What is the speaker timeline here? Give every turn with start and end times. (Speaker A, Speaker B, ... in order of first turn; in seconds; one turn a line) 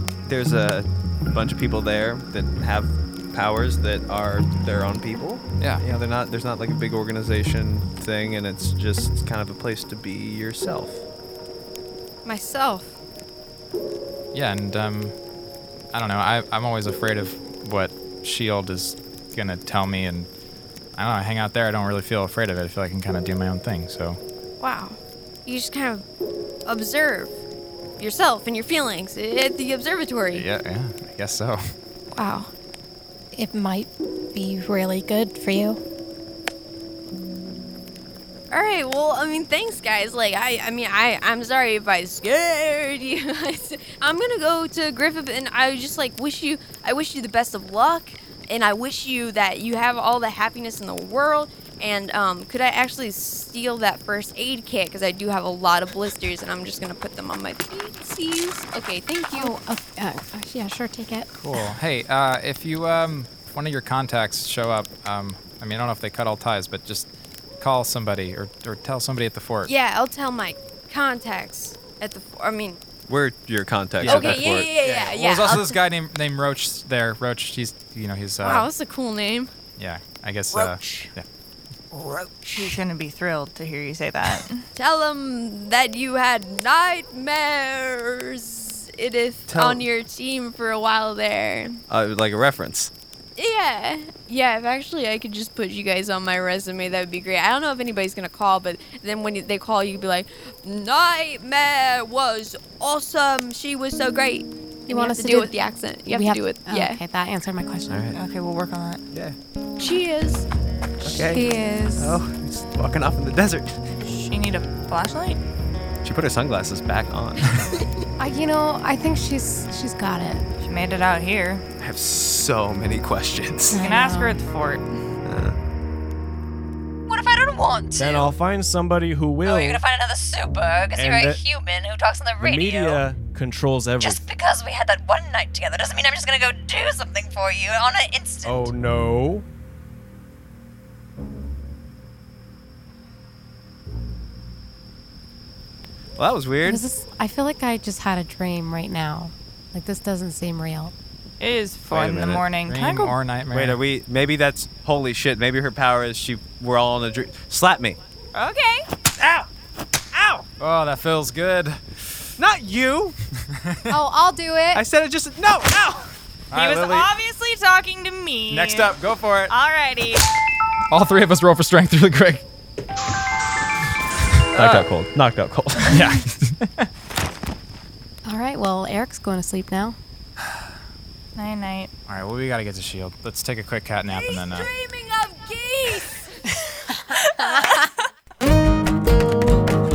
Speaker A: 0.2-11.1
Speaker B: 12.2-13.0
Speaker C: 14.3-15.2
Speaker C: 15.9-20.3
Speaker C: 21.0-24.2
Speaker B: 24.6-26.0
Speaker B: 26.7-27.3
Speaker B: 28.0-30.4
Speaker C: 30.3-31.6
Speaker B: 32.1-32.5
Speaker D: 33.3-35.8
Speaker B: 38.5-59.5
Speaker D: 59.3-61.3
Speaker C: 61.4-67.1
Speaker C: 67.6-69.7
Speaker B: 69.7-72.8
Speaker A: 73.1-74.8
Speaker C: 74.0-78.7
Speaker B: 74.0-75.8
Speaker B: 78.4-79.5
Speaker C: 79.8-81.3
Speaker E: 82.5-84.7
Speaker B: 84.8-91.8
Speaker A: 89.5-89.8
Speaker A: 91.9-92.9
Speaker B: 93.4-107.0
Speaker D: 104.9-105.6
Speaker D: 106.1-108.1
Speaker A: 107.9-108.2
Speaker E: 108.1-109.0
Speaker A: 109.1-109.4
Speaker B: 109.8-110.5
Speaker D: 111.0-112.2
Speaker A: 111.0-113.8
Speaker E: 114.0-115.4
Speaker A: 116.0-117.7
Speaker D: 118.2-120.4
Speaker E: 120.6-121.6
Speaker A: 121.8-123.8
Speaker D: 123.7-124.4
Speaker E: 123.8-124.8
Speaker A: 125.2-125.6
Speaker F: 127.1-128.3
Speaker G: 128.0-129.8
Speaker F: 129.4-133.0
Speaker G: 131.0-131.4
Speaker G: 132.4-134.2
Speaker F: 134.0-138.8
Speaker G: 138.4-139.4
Speaker A: 146.2-146.8
Speaker D: 146.6-150.9
Speaker E: 151.4-153.2
Speaker A: 151.9-152.5
Speaker C: 152.6-153.8
Speaker A: 153.5-158.0
Speaker E: 158.3-158.9
Speaker A: 159.2-159.5
Speaker A: 160.1-160.4
Speaker C: 160.6-162.0
Speaker A: 162.4-163.2
Speaker C: 163.5-163.9
Speaker D: 163.9-164.8
Speaker A: 164.7-166.1
Speaker C: 166.5-167.1
Speaker E: 166.5-168.9
Speaker C: 168.5-169.5
Speaker E: 169.5-170.2
Speaker C: 170.9-172.4
Speaker A: 174.5-176.2
Speaker E: 174.6-174.9
Speaker C: 175.9-176.9
Speaker D: 178.2-180.0
Speaker E: 181.4-181.9
Speaker C: 182.1-184.7
Speaker B: 184.1-186.4
Speaker D: 187.1-187.8
Speaker B: 187.4-187.8